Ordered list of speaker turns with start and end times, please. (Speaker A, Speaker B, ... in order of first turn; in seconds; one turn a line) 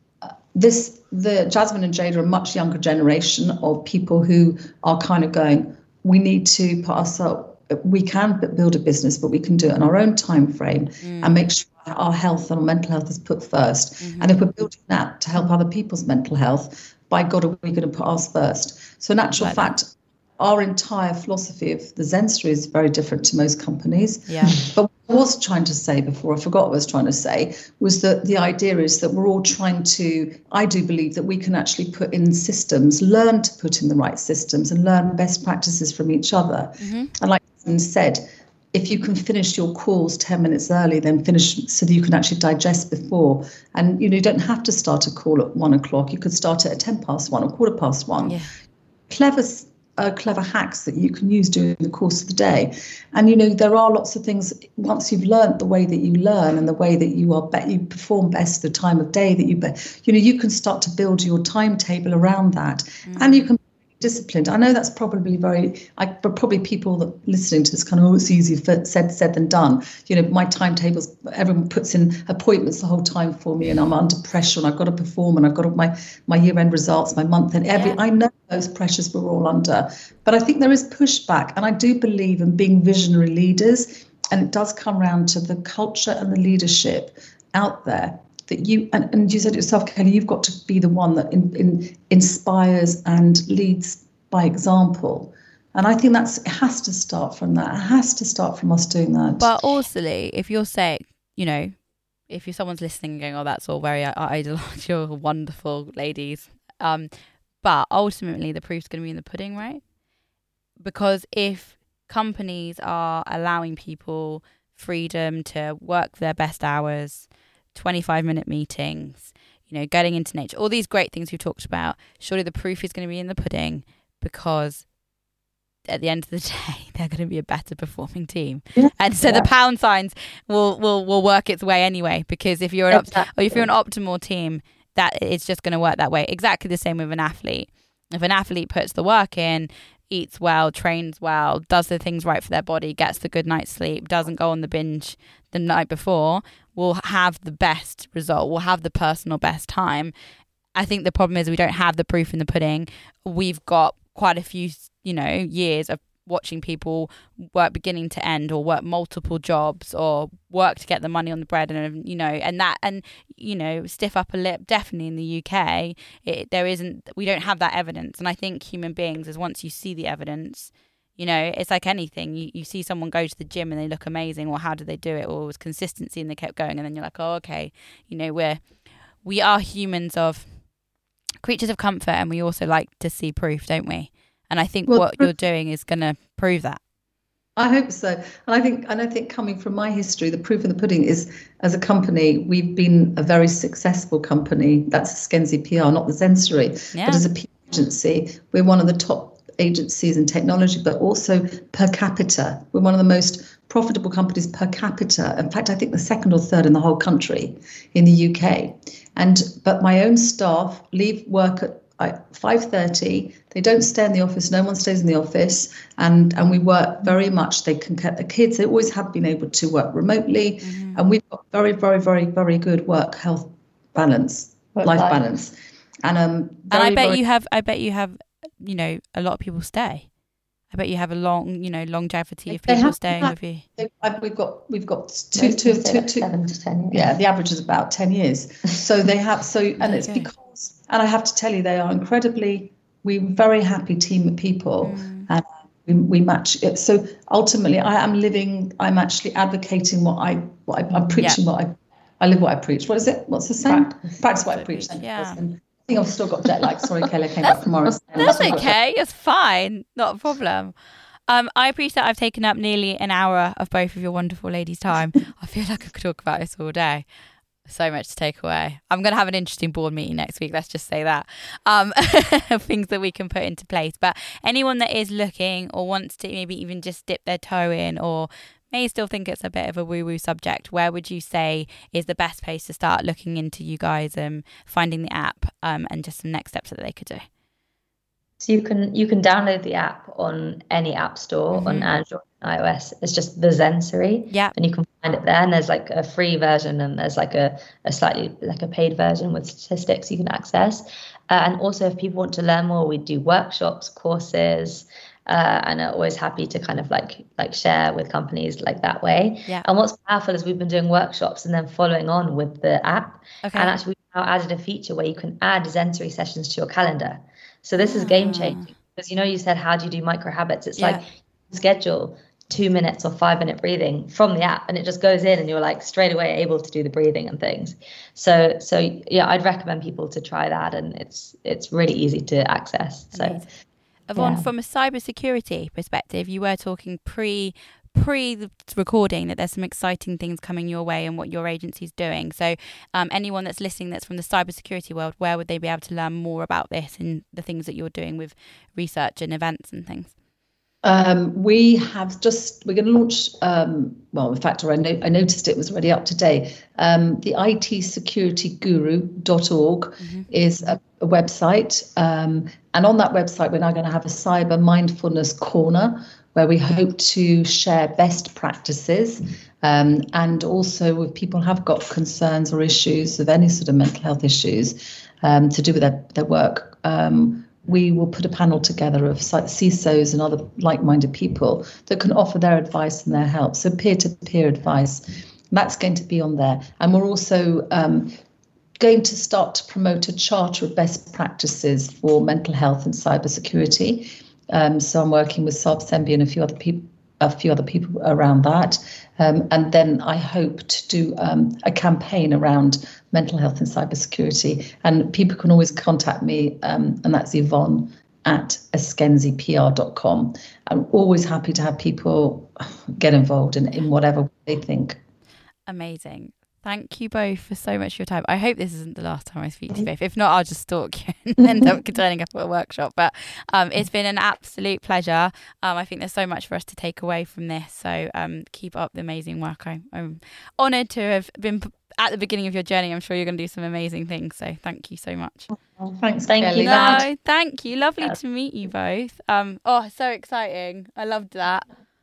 Speaker A: 0.2-48.4
Speaker B: 11.0-11.4
Speaker B: 14.0-14.4
Speaker B: 19.4-19.7
Speaker B: 24.3-24.6
Speaker B: 36.8-37.1
Speaker B: 48.2-48.5
Speaker A: 49.1-99.5
Speaker B: 63.1-63.5
Speaker B: 99.4-109.8
Speaker B: 110.8-124.9
Speaker B: 125.9-150.1
Speaker C: 132.9-133.3
Speaker B: 150.8-178.7
Speaker B: 179.2-180.6
Speaker B: 181.4-186.8
Speaker A: 184.9-185.3
Speaker A: 187.6-227.2
Speaker B: 196.9-197.3
Speaker B: 220.6-221.0
Speaker C: 224.7-225.2
Speaker B: 226.7-230.1
Speaker B: 230.7-233.7
Speaker A: 232.5-236.3
Speaker C: 235.3-237.1
Speaker A: 236.9-258.7
Speaker B: 239.8-240.3
Speaker B: 244.8-245.3
Speaker B: 254.5-255.4
Speaker C: 257.9-258.6
Speaker B: 258.2-260.7
Speaker B: 261.3-267.1
Speaker B: 267.6-287.3
Speaker C: 288.4-333.4
Speaker B: 291.5-291.9
Speaker B: 313.4-313.7
Speaker B: 317.8-318.7
Speaker B: 320.8-321.0
Speaker B: 333.1-333.5
Speaker B: 334.1-350.1
Speaker C: 334.2-334.5
Speaker A: 350.8-388.1
Speaker B: 360.0-360.3
Speaker A: 388.8-415.0
Speaker B: 415.7-435.5
Speaker C: 435.8-437.1
Speaker A: 436.0-437.1
Speaker B: 436.6-441.6